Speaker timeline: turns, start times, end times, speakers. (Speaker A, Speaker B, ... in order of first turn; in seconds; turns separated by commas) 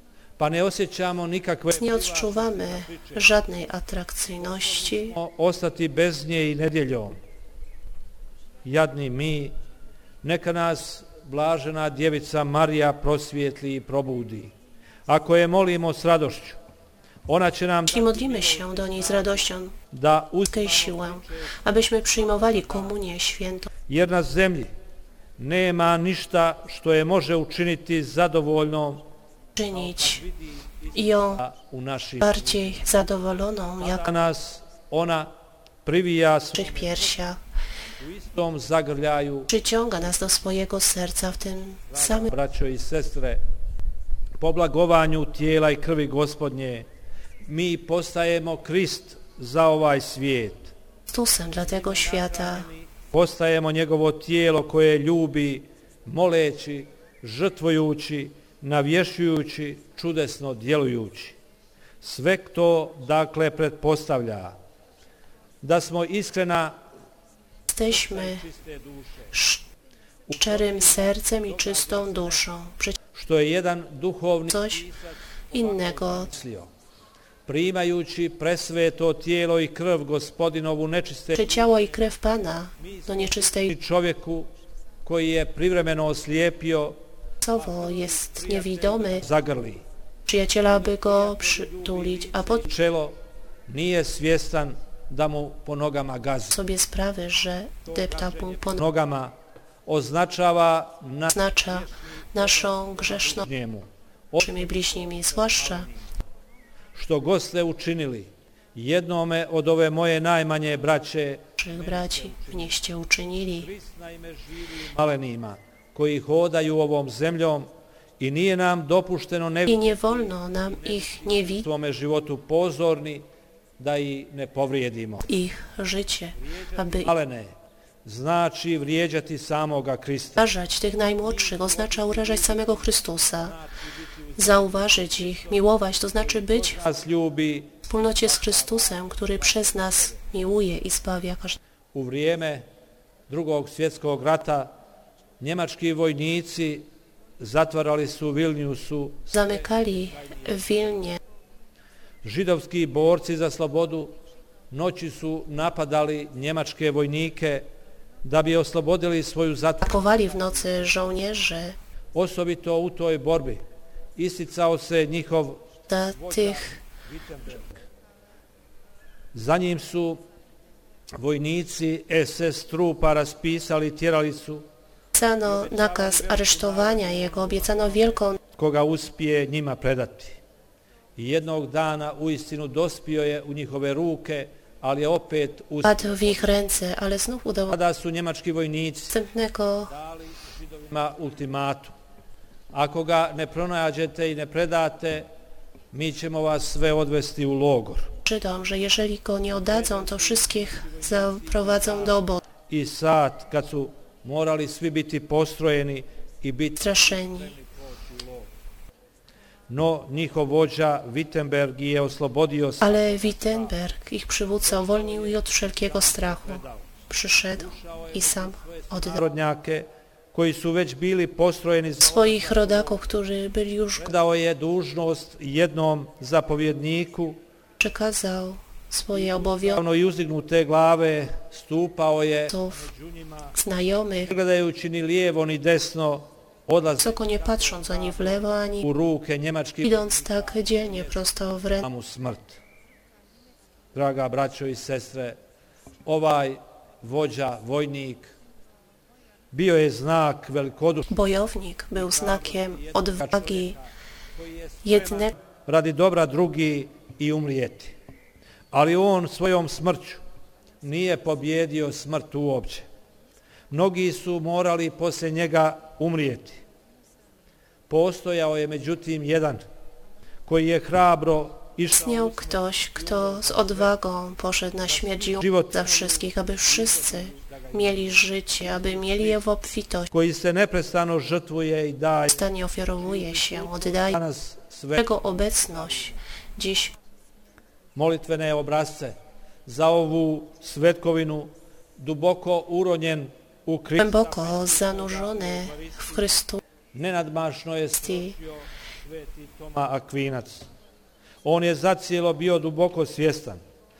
Speaker A: 0.4-3.4, Speaker B: 1.7-5.2, Speaker A: 4.6-7.2, Speaker A: 8.7-9.6, Speaker A: 10.2-14.5, Speaker A: 15.1-16.6, Speaker A: 17.3-23.0, Speaker B: 17.9-19.8, Speaker B: 20.5-23.7, Speaker A: 23.9-24.7, Speaker A: 25.4-29.0, Speaker B: 29.6-30.2, Speaker A: 29.7-32.9, Speaker B: 30.9-31.4, Speaker B: 32.2-34.1, Speaker A: 33.8-35.3, Speaker A: 35.9-37.2, Speaker B: 36.5-37.4, Speaker A: 38.0-39.5, Speaker B: 39.5-42.3, Speaker A: 41.9-43.4, Speaker A: 44.4-46.9, Speaker A: 47.5-50.7, Speaker B: 51.1-52.7, Speaker A: 51.6-61.4, Speaker A: 62.0-64.6, Speaker A: 65.6-66.8, Speaker B: 67.7-68.5, Speaker A: 67.9-69.3, Speaker B: 69.3-69.7, Speaker A: 70.3-72.4, Speaker B: 70.4-73.0, Speaker A: 73.1-76.7, Speaker B: 74.5-74.9, Speaker B: 75.5-76.3, Speaker A: 77.5-82.1, Speaker B: 81.3-83.7, Speaker A: 82.8-84.5, Speaker A: 85.0-87.0, Speaker B: 87.4-89.3, Speaker A: 87.5-89.8, Speaker B: 90.3-92.7, Speaker A: 90.7-96.6, Speaker B: 96.5-98.8, Speaker A: 97.9-99.3, Speaker A: 99.9-106.1, Speaker B: 101.3-103.5, Speaker B: 104.4-105.9, Speaker A: 107.0-112.8, Speaker B: 111.6-113.7, Speaker A: 113.6-123.3, Speaker B: 119.7-121.7, Speaker A: 123.8-125.2, Speaker B: 125.2-127.1, Speaker A: 126.4-127.5, Speaker A: 128.0-130.4, Speaker B: 130.4-133.6, Speaker A: 131.2-140.2, Speaker B: 134.4-136.8, Speaker B: 137.9-141.6, Speaker A: 141.9-142.7, Speaker A: 143.3-144.7, Speaker A: 145.4-146.9, Speaker A: 147.4-151.1, Speaker B: 149.3-151.2, Speaker A: 152.2-154.2, Speaker A: 154.7-157.7, Speaker A: 158.2-161.1, Speaker B: 159.8-161.8, Speaker A: 162.1-163.6, Speaker A: 164.2-167.8, Speaker B: 165.9-166.8, Speaker A: 169.3-170.2, Speaker A: 171.2-174.7, Speaker B: 175.2-178.4, Speaker A: 175.4-180.4, Speaker A: 181.2-186.5, Speaker B: 185.8-187.8, Speaker A: 187.7-189.2, Speaker B: 189.1-189.9, Speaker A: 189.9-191.9, Speaker A: 192.7-195.3, Speaker A: 195.9-198.1, Speaker B: 198.2-202.4, Speaker A: 199.6-208.5, Speaker B: 206.8-207.6, Speaker A: 209.7-213.8, Speaker B: 212.8-219.2, Speaker A: 214.6-216.9, Speaker A: 217.6-223.0, Speaker B: 222.0-224.2, Speaker A: 224.0-227.4, Speaker B: 227.8-229.8, Speaker A: 229.1-233.6, Speaker B: 232.5-232.9, Speaker B: 233.5-234.3, Speaker A: 234.2-242.6, Speaker B: 237.0-238.9, Speaker B: 239.8-241.9, Speaker A: 243.9-245.4, Speaker A: 246.1-248.4, Speaker A: 249.5-251.1, Speaker B: 251.1-253.8, Speaker A: 251.9-258.0, Speaker B: 254.8-255.3, Speaker A: 258.7-260.2, Speaker A: 260.8-262.9, Speaker A: 263.7-266.6, Speaker A: 267.9-269.6, Speaker A: 270.5-273.9, Speaker B: 271.9-280.1, Speaker A: 274.8-279.4, Speaker A: 280.1-286.1, Speaker B: 282.3-284.2, Speaker B: 285.0-286.9, Speaker A: 287.9-296.2, Speaker B: 294.0-296.6, Speaker A: 296.9-300.7, Speaker B: 298.0-298.4, Speaker A: 301.4-303.6